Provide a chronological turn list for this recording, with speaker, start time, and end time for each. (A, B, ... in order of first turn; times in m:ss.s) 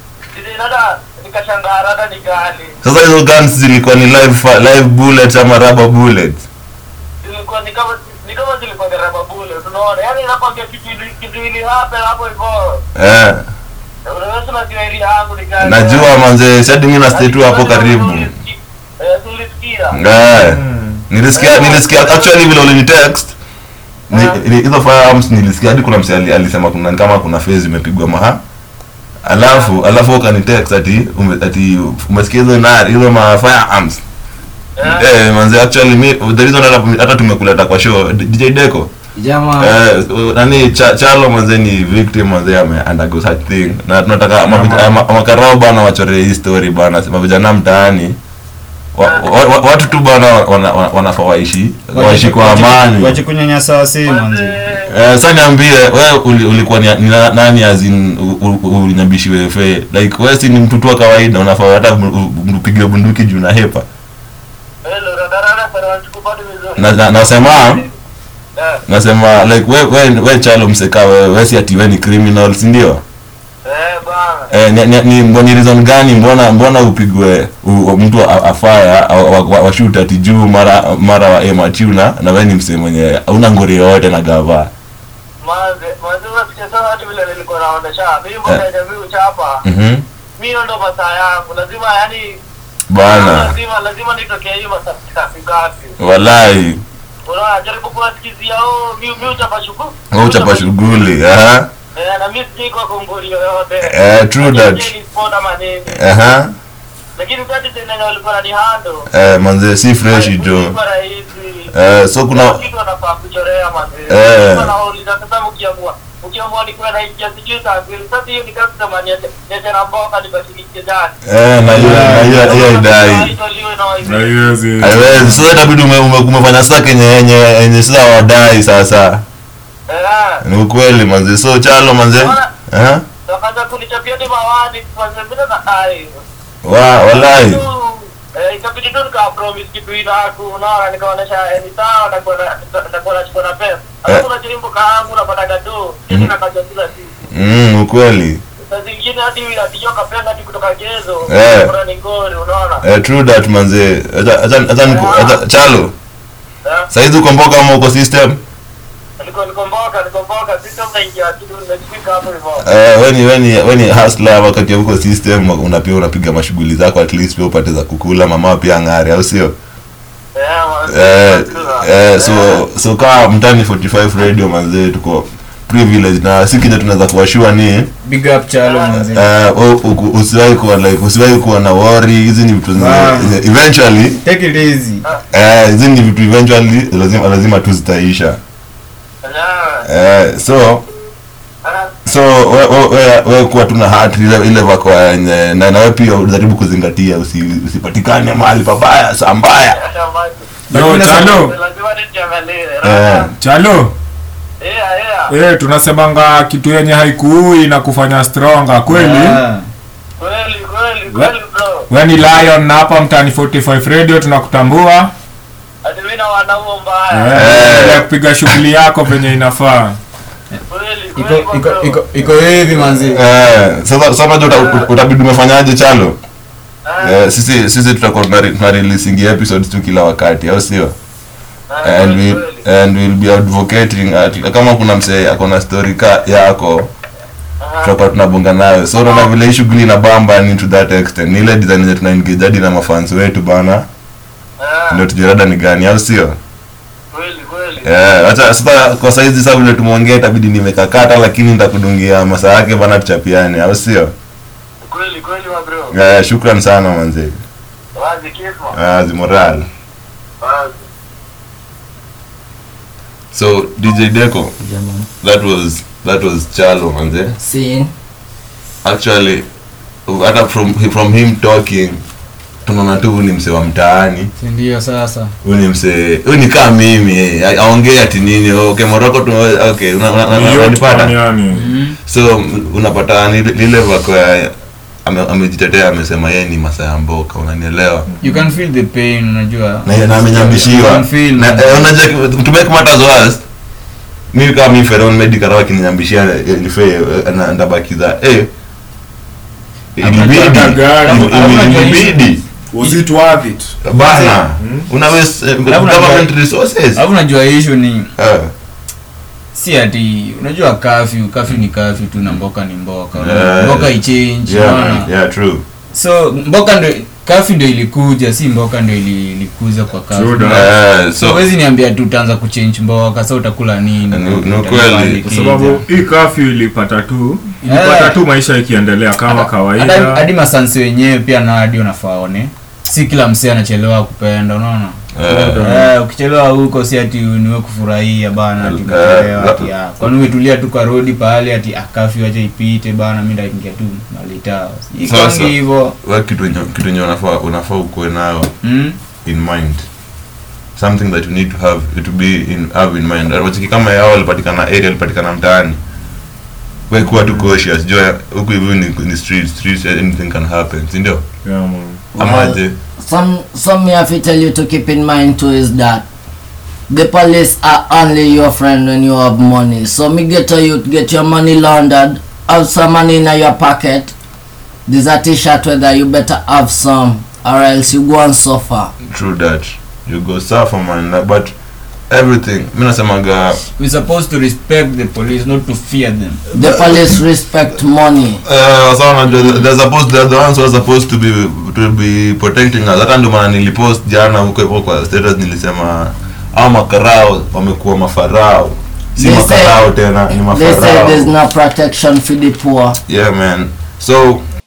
0:00.3-0:02.8 A
0:02.8-0:06.4 B
0:07.2-0:12.8 A
0:12.9-0:13.4 B
0:14.1-0:16.1 A
0:15.6-0:18.3 B
0:17.1-0:20.0 A
0:19.9-0:23.3 B
0:20.3-0:21.0 C
0:21.3-0:22.4 A
0:24.1-0:24.4 A
0:24.1-0:28.4 B
0:29.2-0:34.0 B
0:29.4-0:29.7 A
0:34.8-0:35.0 A
0:34.8-0:38.9 B
0:39.6-0:48.2 B
0:44.5-0:44.9 C
0:49.0-0:53.2 B
0:49.0-0:49.5 A
0:51.9-0:54.6 D
0:54.0-0:54.9 A
0:54.8-1:03.8 B
1:04.8-1:07.9 A
1:06.8-1:07.8 B
1:08.9-1:13.0 B
1:13.6-1:14.5 A
1:14.5-1:24.7 B
1:25.4-1:29.6 A
1:29.6-1:30.0 B
1:30.4-1:32.4 A
1:32.9-1:33.6 B
1:33.0-1:35.9 A
1:36.0-1:36.8 B
1:37.2-1:40.8 A
1:40.1-1:41.7 B
1:42.0-1:46.1 A
1:43.8-1:44.9 B
1:46.0-1:46.5 B
1:47.2-1:49.0 A
1:49.1-1:50.7 B
1:50.1-1:51.7 A
1:51.7-1:52.6 B
1:52.3-2:01.1 A
1:54.1-1:54.7 B
2:01.2-2:03.3 B
2:01.7-2:02.3 C
2:01.8-2:04.6 A
2:04.0-2:05.4 C
2:04.8-2:09.2 B
2:09.9-2:10.4 A
2:10.4-2:13.0 B
2:12.1-2:12.5 A
2:13.2-2:16.1 A
2:16.6-2:17.6 B
2:17.1-2:27.1 A
2:27.3-2:28.4 B
2:28.6-2:32.8 A
2:31.3-2:31.7 B
2:32.8-2:35.9 B
2:34.8-2:35.4 A
2:36.9-2:38.4 B
2:39.2-2:42.6 A
2:42.6-2:49.5 B
2:50.4-2:52.6 A
2:50.9-2:57.9 B
2:58.0-2:59.2 D
2:59.0-3:04.2 B
3:02.7-3:03.4 D
3:04.2-3:05.0 D
3:05.3-3:08.4 B
3:09.2-3:09.8 A
3:09.8-3:10.8 B
3:11.6-3:11.9 A
3:12.0-3:19.8 B
3:19.7-3:20.4 A
3:20.7-3:21.4 D
3:20.7-3:21.5 C
3:21.1-3:23.3 A
3:22.8-3:23.3 B
3:23.4-3:23.9 C
3:24.6-3:25.3 A
3:25.3-3:29.4 C
3:28.9-3:29.6 D
3:30.2-3:31.9 A
3:31.9-3:35.1 C
3:35.8-3:37.7 A
3:37.1-3:40.0 C
3:37.3-3:38.5 B
3:40.7-3:42.0 A
3:41.2-3:43.2 D
3:43.1-3:46.2 B
3:44.4-3:44.9 A
3:46.8-3:47.1 A
3:47.0-3:50.9 B
3:51.7-3:52.6 A
3:51.8-3:56.9 B
3:57.6-3:57.9 A
3:57.8-4:03.8 B
3:59.0-3:59.3 A
4:04.6-4:05.0 A
4:04.9-4:06.4 B
4:07.1-4:07.9 A
4:07.8-4:14.1 B
4:14.8-4:15.9 A
4:15.9-4:17.4 B
4:18.0-4:18.7 A
4:18.7-4:19.7 B
4:20.4-4:20.8 A
4:23.3-4:24.5 B
4:24.6-4:25.1 E
4:25.2-4:27.3 B
4:27.4-4:27.9 E
4:28.8-4:29.4 B
4:30.1-4:32.0 B
4:32.6-4:34.3 B
4:34.4-4:35.3 D
4:35.4-4:41.2 B
4:40.3-4:41.7 C
4:41.5-4:42.0 D
4:42.0-4:44.5 B
4:45.0-4:48.1 B
4:48.2-4:51.9 D
4:49.8-4:53.4 B
4:54.3-4:58.5 B
5:00.0-5:02.4 B
5:00.0-5:02.0 C
5:00.9-5:02.3 D
5:02.7-5:04.9 C
5:03.8-5:07.0 B
5:05.7-5:06.3 D
5:06.9-5:08.1 D
5:08.2-5:08.5 B
5:09.5-5:15.1 D
5:13.2-5:15.6 B
5:15.9-5:25.8 D
5:20.1-5:20.7 C
5:20.4-5:21.5 B
5:24.1-5:25.3 B
5:25.3-5:30.2 C
5:27.6-5:28.2 D
5:29.2-5:46.0 D
5:35.1-5:35.6 B
5:35.3-5:35.9 C
5:38.6-5:40.1 B
5:45.0-5:48.5 B
5:48.6-5:49.0 D
5:49.2-5:49.8 B
5:50.8-5:55.8 B
5:56.9-6:01.2 B
6:01.4-6:02.0 C
6:02.1-6:06.0 E
6:02.2-6:02.7 B
6:06.9-6:14.1 E
6:14.9-6:18.9 E
6:19.0-6:21.5 B
6:22.1-6:23.6 B
6:23.8-6:26.4 D
6:26.5-6:28.4 E
6:28.4-6:41.3 B
6:39.2-6:43.0 E
6:43.0-6:44.4 B